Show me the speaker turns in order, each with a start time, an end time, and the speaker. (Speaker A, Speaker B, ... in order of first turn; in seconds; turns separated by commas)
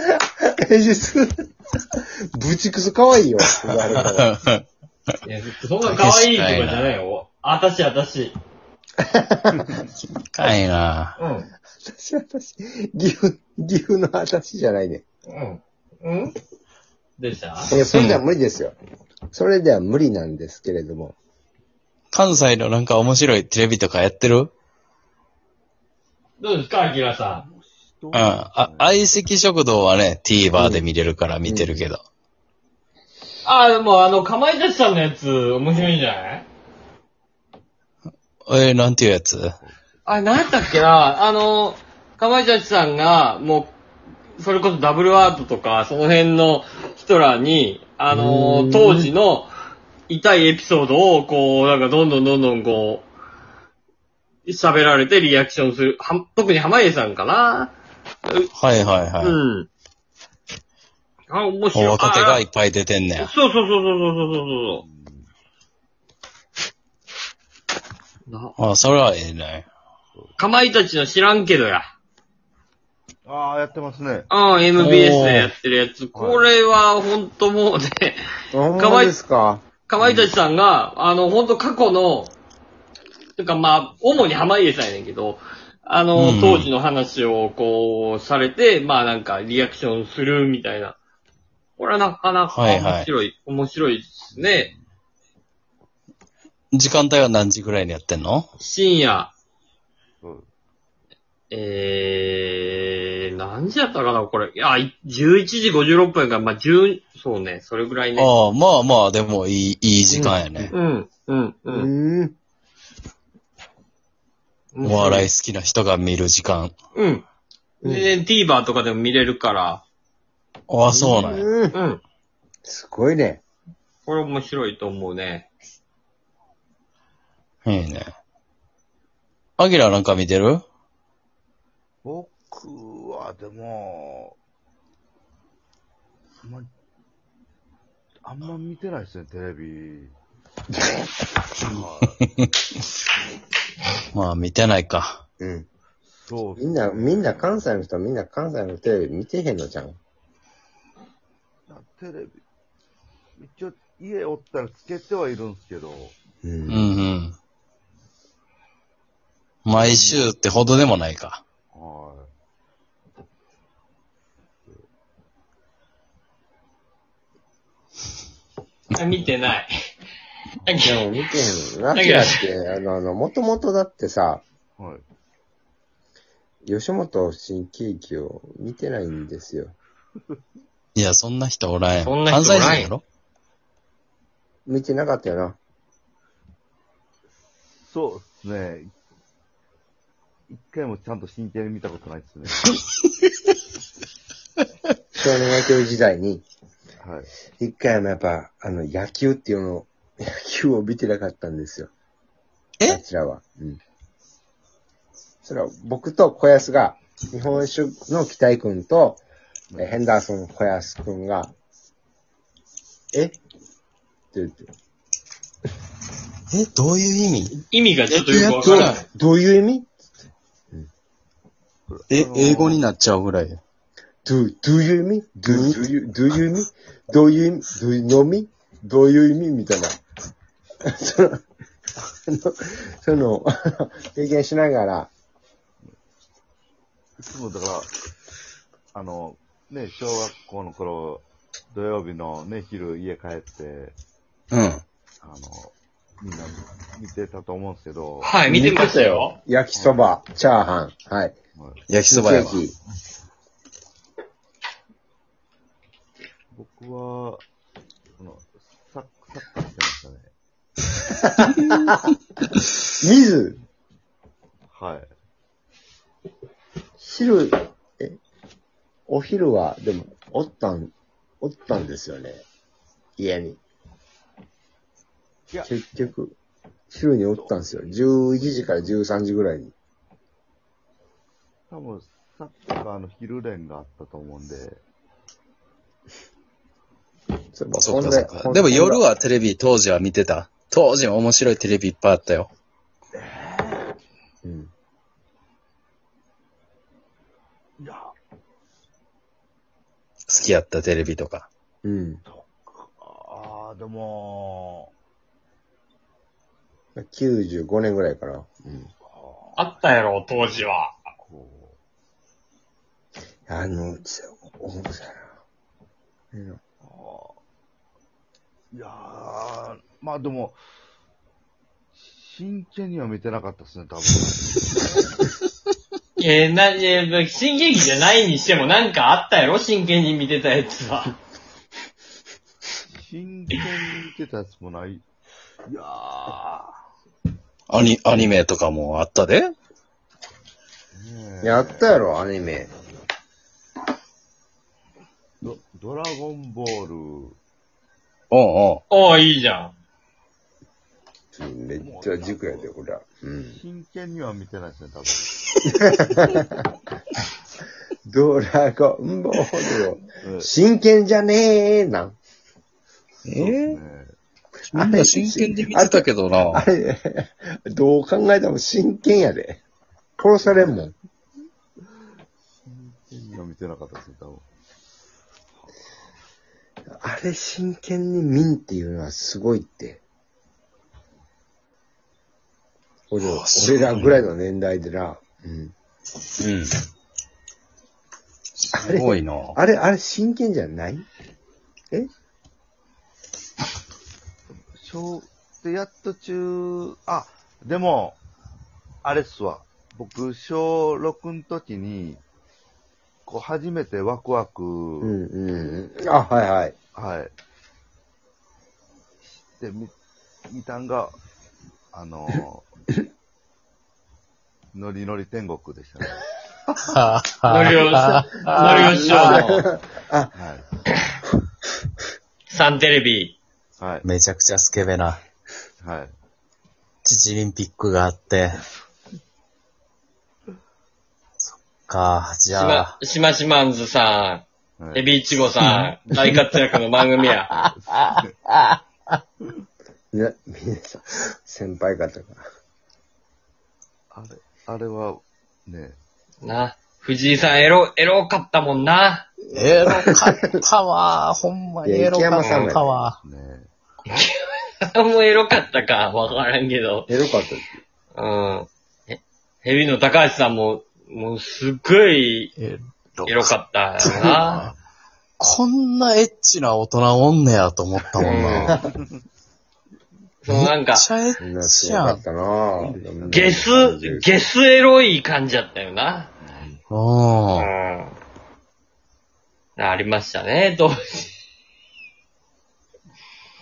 Speaker A: 0.1-1.4, Speaker A: 2.3-4.3, Speaker B: 4.0-4.7, Speaker C: 5.2-8.3, Speaker B: 5.8-6.9, Speaker A: 9.1-9.9, Speaker B: 10.3-11.2, Speaker C: 11.2-11.5, Speaker A: 11.8-15.0, Speaker C: 15.3-16.3, Speaker C: 17.2-17.7, Speaker A: 17.7-18.8, Speaker B: 17.9-18.2, Speaker A: 19.3-21.2, Speaker B: 22.1-24.5, Speaker C: 26.4-27.4, Speaker D: 27.3-29.2, Speaker B: 28.1-32.0, Speaker A: 30.5-30.9, Speaker A: 31.4-31.8, Speaker C: 33.4-36.4, Speaker B: 38.5-39.6, Speaker C: 40.1-43.8, Speaker C: 44.4-49.5, Speaker A: 48.1-49.1, Speaker C: 50.1-53.1, Speaker C: 54.5-58.5, Speaker B: 58.5-59.4, Speaker C: 59.2-59.7, Speaker C: 61.3-62.4, Speaker B: 61.7-63.3, Speaker C: 63.2-64.8, Speaker D: 64.8-65.3, Speaker C: 68.2-68.5, Speaker B: 68.6-69.7, Speaker C: 70.4-71.9, Speaker D: 73.2-74.3, Speaker C: 74.3-78.2, Speaker B: 74.8-75.5, Speaker D: 76.1-76.5, Speaker A: 78.5-79.6, Speaker C: 78.8-79.2, Speaker C: 79.9-82.3, Speaker D: 80.0-80.3, Speaker C: 83.4-91.0, Speaker B: 86.2-86.7, Speaker C: 91.8-94.7, Speaker B: 92.5-93.1, Speaker D: 94.3-94.8, Speaker B: 96.7-98.5, Speaker C: 98.6-99.3, Speaker D: 100.2-100.5, Speaker C: 101.5-108.3, Speaker B: 108.2-110.7, Speaker A: 110.1-110.7, Speaker C: 110.7-111.9, Speaker A: 111.7-112.3, Speaker C: 114.7-115.3, Speaker B: 114.8-116.7, Speaker C: 116.9-117.2, Speaker A: 117.8-118.1, Speaker C: 117.8-119.8, Speaker B: 120.7-121.5, Speaker A: 120.9-121.8, Speaker C: 121.7-122.0, Speaker A: 122.6-123.4, Speaker C: 124.1-125.5, Speaker B: 127.6-128.1, Speaker B: 129.6-130.6, Speaker D: 132.0-134.4, Speaker D: 136.4-136.7, Speaker D: 138.2-140.1, Speaker D: 141.6-142.2, Speaker B: 144.1-145.2, Speaker A: 145.4-145.7, Speaker D: 146.0-147.6, Speaker A: 146.6-150.0, Speaker D: 151.7-152.4, Speaker D: 153.4-156.2, Speaker A: 156.4-156.9, Speaker B: 156.7-157.3, Speaker B: 159.6-161.4, Speaker D: 159.8-160.3, Speaker D: 161.7-162.3, Speaker C: 168.9-169.7, Speaker C: 170.6-171.0, Speaker A: 170.8-174.4, Speaker C: 171.9-172.4, Speaker D: 174.8-175.1, Speaker A: 176.6-179.8, Speaker B: 180.9-183.0, Speaker C: 182.1-182.9, Speaker A: 184.7-185.6, Speaker D: 187.8-188.9, Speaker D: 190.5-192.7, Speaker A: 195.2-196.4, Speaker D: 197.0-197.3, Speaker A: 197.6-201.9, Speaker A: 202.8-203.8, Speaker A: 205.4-209.2, Speaker D: 209.7-210.0, Speaker A: 209.8-211.5, Speaker A: 213.1-213.4, Speaker A: 214.3-214.7, Speaker B: 216.5-217.6, Speaker C: 217.6-219.1, Speaker B: 218.1-219.0, Speaker A: 218.6-219.9, Speaker D: 221.9-222.8, Speaker B: 222.1-223.6, Speaker A: 224.2-229.9, Speaker B: 225.5-225.8, Speaker A: 230.8-231.4, Speaker A: 232.3-235.1, Speaker D: 237.2-237.9, Speaker D: 238.9-244.0, Speaker B: 244.5-244.8, Speaker D: 245.2-248.4, Speaker C: 248.2-249.4, Speaker A: 248.5-251.3, Speaker D: 249.8-250.0, Speaker D: 251.6-251.8, Speaker B: 251.9-252.6, Speaker A: 252.1-252.8, Speaker D: 256.5-257.4, Speaker D: 258.1-260.3, Speaker A: 261.4-261.9, Speaker B: 261.6-261.9, Speaker A: 263.0-263.6, Speaker D: 264.7-265.1, Speaker A: 267.0-268.2, Speaker A: 269.1-272.4, Speaker A: 273.2-273.6, Speaker A: 275.6-276.4, Speaker A: 276.9-279.7, Speaker D: 277.4-278.3, Speaker D: 281.7-284.8, Speaker A: 287.5-289.0, Speaker B: 287.8-292.5, Speaker D: 293.1-293.9, Speaker A: 294.4-294.7, Speaker D: 297.8-298.1, Speaker B: 300.3-301.5, Speaker A: 301.8-302.2, Speaker D: 302.3-304.9, Speaker A: 306.9-308.9, Speaker D: 309.0-309.9, Speaker C: 309.6-311.1, Speaker D: 311.2-311.8, Speaker A: 313.5-315.3, Speaker A: 316.3-316.6, Speaker D: 316.8-317.4, Speaker D: 318.7-320.6, Speaker D: 321.9-325.2, Speaker C: 326.2-331.1, Speaker D: 332.9-335.1, Speaker D: 335.7-336.7, Speaker B: 337.7-339.5, Speaker D: 340.9-341.9, Speaker A: 341.4-342.7, Speaker D: 345.4-347.4, Speaker B: 348.3-348.8, Speaker C: 348.9-349.7, Speaker A: 351.3-353.6, Speaker D: 351.8-352.7, Speaker D: 353.5-355.3, Speaker A: 355.7-356.5, Speaker A: 358.1-362.2, Speaker D: 360.2-360.5, Speaker B: 363.3-363.8, Speaker D: 363.4-364.1, Speaker A: 364.6-369.6, Speaker B: 364.7-366.6, Speaker A: 370.2-370.9, Speaker D: 372.6-374.5, Speaker A: 376.9-380.0, Speaker A: 383.1-385.7, Speaker B: 383.2-384.3, Speaker B: 386.4-386.8, Speaker B: 388.6-389.6, Speaker A: 388.7-391.1, Speaker D: 394.7-398.2, Speaker D: 399.0-402.2, Speaker D: 403.3-405.1, Speaker A: 405.0-406.7, Speaker D: 406.9-407.3, Speaker D: 409.2-409.9, Speaker D: 410.5-411.2, Speaker D: 411.9-412.7, Speaker D: 414.7-416.2, Speaker B: 416.8-419.2, Speaker C: 417.5-419.7, Speaker A: 418.5-420.3, Speaker D: 420.3-420.6, Speaker C: 422.5-423.4, Speaker D: 423.8-424.1, Speaker B: 424.0-425.2, Speaker D: 425.8-426.1, Speaker B: 427.1-428.6, Speaker B: 431.4-432.9, Speaker C: 432.5-437.5, Speaker D: 434.8-435.1, Speaker B: 435.6-436.4, Speaker D: 437.8-438.3, Speaker A: 440.1-442.4, Speaker D: 444.1-446.0, Speaker C: 446.4-449.3, Speaker A: 449.5-450.4, Speaker B: 449.5-453.2, Speaker A: 451.8-452.9, Speaker C: 452.4-452.7, Speaker D: 452.8-453.7, Speaker C: 454.1-457.1, Speaker A: 457.1-457.8, Speaker C: 458.1-462.5, Speaker B: 462.6-464.7, Speaker C: 463.3-464.7, Speaker B: 465.4-468.8, Speaker A: 468.2-468.8, Speaker C: 468.2-468.7, Speaker C: 470.4-471.1, Speaker B: 470.5-472.2, Speaker A: 471.4-474.3, Speaker D: 472.8-473.7, Speaker C: 473.3-476.3, Speaker D: 476.4-476.8, Speaker B: 476.9-477.7, Speaker C: 477.6-478.1, Speaker C: 479.8-481.3